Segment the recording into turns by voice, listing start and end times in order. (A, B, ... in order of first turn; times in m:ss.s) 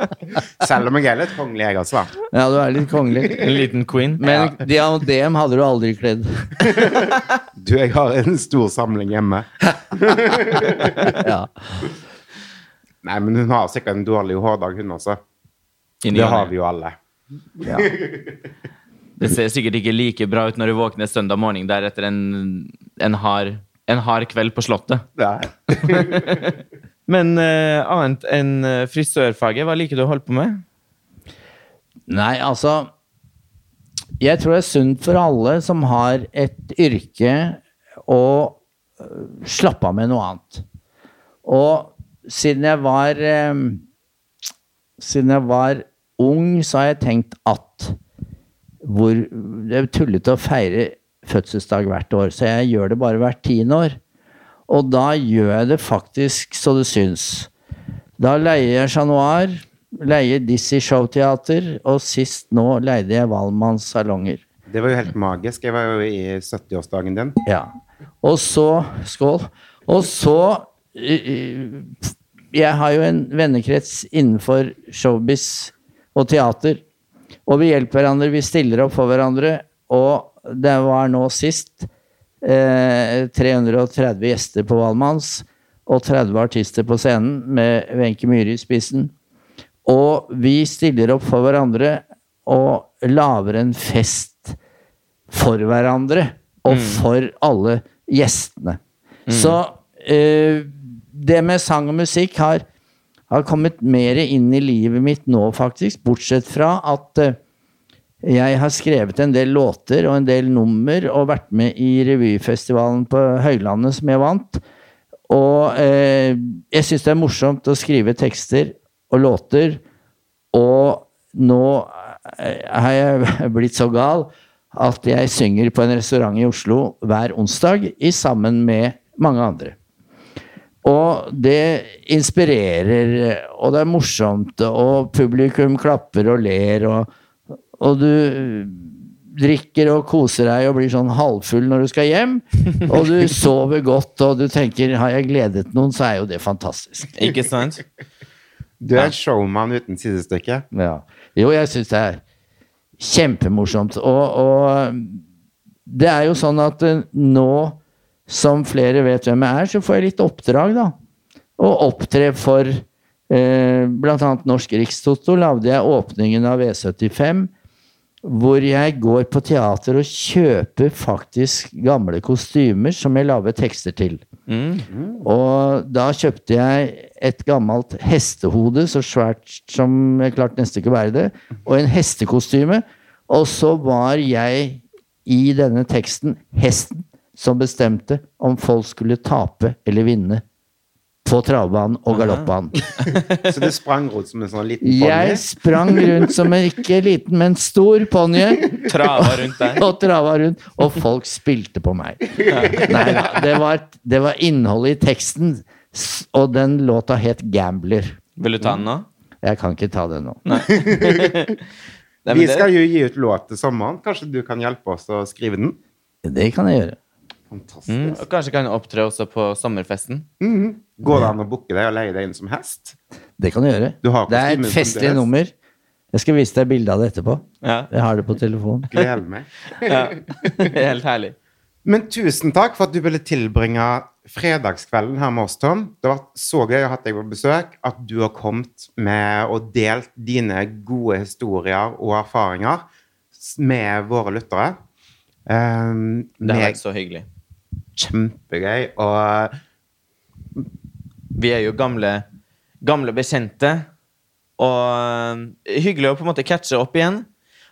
0:00.4-0:02.2 A
0:02.3-0:03.5 B
0:03.4-0:04.5 C
0:04.2-0:06.7 B
0:06.7-0:11.2 A
0:11.1-0:11.8 B
0:13.0-0:15.2 A
0:16.0-0:16.5 C
0:16.1-0:17.0 A
0:17.6-0:18.3 A
0:19.2-0:25.0 C
0:25.2-0:26.5 A
0:25.7-0:26.5 C
0:27.1-0:30.6 C
0:32.1-0:32.9 B
0:34.2-0:40.6 B
0:41.4-0:43.8 B
0:45.0-0:48.0 B
0:48.8-0:54.0 B
0:54.7-0:57.5 B
0:58.2-1:04.4 B
1:04.7-1:07.4 A
1:07.4-1:07.7 B
1:08.2-1:16.8 B
1:17.5-1:21.9 B
1:22.4-1:29.1 B
1:29.9-1:34.6 B
1:35.3-1:42.6 B
1:36.7-1:37.0 C
1:39.3-1:39.6 C
1:43.3-1:47.4 B
1:48.2-1:54.6 B
1:55.3-1:59.8 B
2:00.5-2:09.8 B
2:10.8-2:17.1 B
2:17.8-2:27.2 B
2:27.2-2:27.8 C
2:28.8-2:30.7 A
2:30.7-2:32.2 B
2:33.0-2:35.2 B
2:35.9-2:41.0 B
2:41.6-2:47.5 B
2:48.2-2:54.2 B
2:54.5-2:54.9 C
2:54.9-2:55.2 A
2:55.2-3:10.4 B
3:11.2-3:12.8 B
3:12.1-3:13.5 C
3:13.4-3:16.3 A
3:14.8-3:28.8 B
3:18.8-3:19.8 C
3:22.5-3:22.9 C
3:28.4-3:29.1 C
3:29.4-3:30.4 B
3:30.5-3:31.6 C
3:30.7-3:31.4 A
3:32.2-3:32.7 C
3:32.3-3:35.8 A
3:36.2-3:37.0 B
3:37.5-3:38.2 A
3:37.9-3:40.3 C
3:40.4-3:43.0 A
3:43.4-3:45.5 B
3:44.0-3:45.3 A
3:46.1-3:48.9 B
3:47.6-3:47.9 C
3:48.9-3:50.7 A
3:49.8-3:51.4 C
3:51.8-4:04.8 A
4:05.5-4:06.8 A
4:06.4-4:07.3 C
4:08.0-4:09.6 A
4:11.3-4:12.2 C
4:12.8-4:13.9 C
4:14.6-4:17.3 C